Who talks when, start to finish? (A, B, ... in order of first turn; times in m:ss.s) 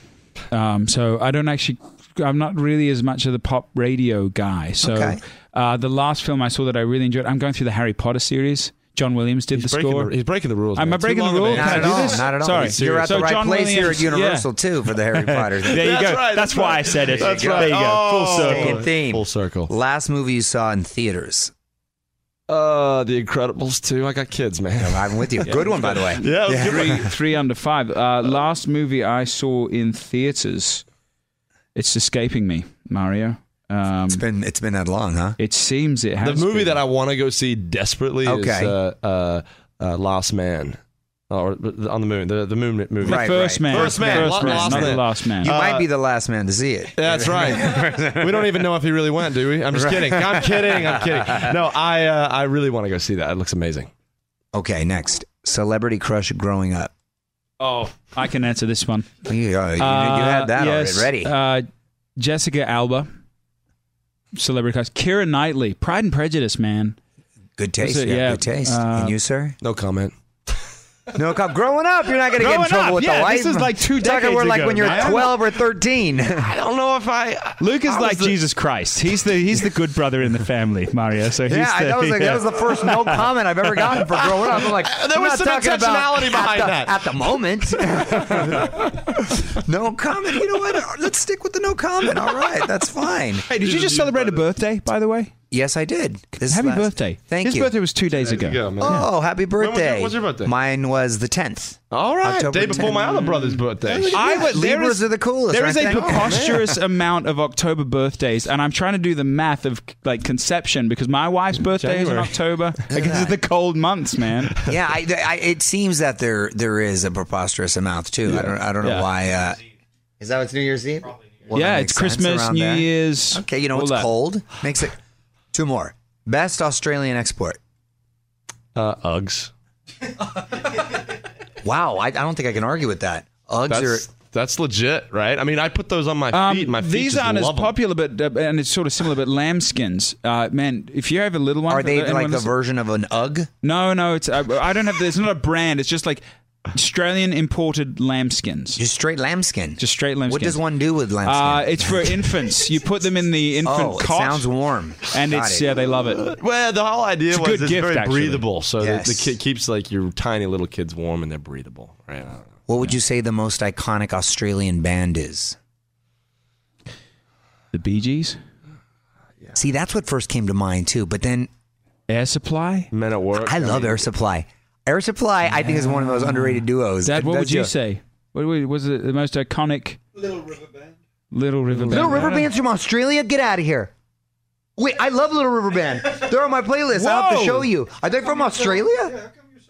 0:00.5-0:10.1 A
0:04.8-0:05.2 B
0:09.5-0:13.2 C
0:10.8-0:18.8 A
0:11.5-0:15.9 B
0:15.7-0:19.7 C
0:17.0-0:21.5 B
0:22.5-0:27.0 C
0:24.8-0:27.1 B
0:26.6-0:30.8 A
0:31.8-0:34.2 A
0:34.1-0:35.4 B
0:35.4-0:36.8 A
0:36.2-0:40.8 C
0:38.2-0:38.8 B
0:41.3-0:45.9 C
0:43.0-0:45.6 A
0:43.0-0:48.6 B
0:47.0-0:53.9 C
0:49.7-0:51.5 B
0:54.5-0:56.9 B
0:57.6-0:59.2 A
0:59.2-1:01.3 B
0:59.8-1:01.7 A
1:02.2-1:03.1 A
1:04.4-1:07.0 A
1:07.6-1:09.6 B
1:07.8-1:09.2 A
1:09.6-1:10.1 C
1:11.1-1:16.5 B
1:12.4-1:15.5 A
1:14.8-1:15.3 C
1:16.4-1:18.5 C
1:17.6-1:23.3 A
1:21.4-1:33.5 B
1:24.2-1:27.4 C
1:28.5-1:28.8 C
1:33.5-1:35.4 A
1:33.5-1:34.4 C
1:35.5-1:37.7 B
1:36.4-1:39.1 A
1:38.1-1:40.5 C
1:38.8-1:42.8 B
1:41.9-1:44.4 C
1:42.7-1:54.6 A
1:44.0-1:46.8 B
1:45.8-1:46.7 C
1:51.8-1:52.4 C
1:52.9-1:53.4 B
1:54.7-1:59.6 B
1:58.3-1:59.1 A
2:00.2-2:05.0 B
2:01.5-2:04.1 A
2:05.5-2:07.6 B
2:08.8-2:09.5 C
2:11.6-2:14.1 B
2:13.7-2:17.8 C
2:16.3-2:22.5 A
2:21.7-2:23.5 B
2:23.6-2:26.2 A
2:26.7-2:28.8 A
2:28.8-2:32.2 B
2:29.8-2:30.6 A
2:31.2-2:34.5 A
2:33.6-2:35.6 B
2:35.1-2:36.2 A
2:36.1-2:42.5 C
2:37.3-2:38.4 A
2:38.8-2:39.4 B
2:42.7-2:45.6 B
2:47.7-2:48.4 A
2:49.6-2:51.5 B
2:52.1-2:52.9 A
2:52.9-2:54.1 C
2:53.4-2:57.7 B
2:55.5-3:00.4 A
3:01.3-3:02.4 A
3:01.8-3:02.3 C
3:01.9-3:03.9 B
3:04.8-3:09.2 B
3:06.9-3:07.7 A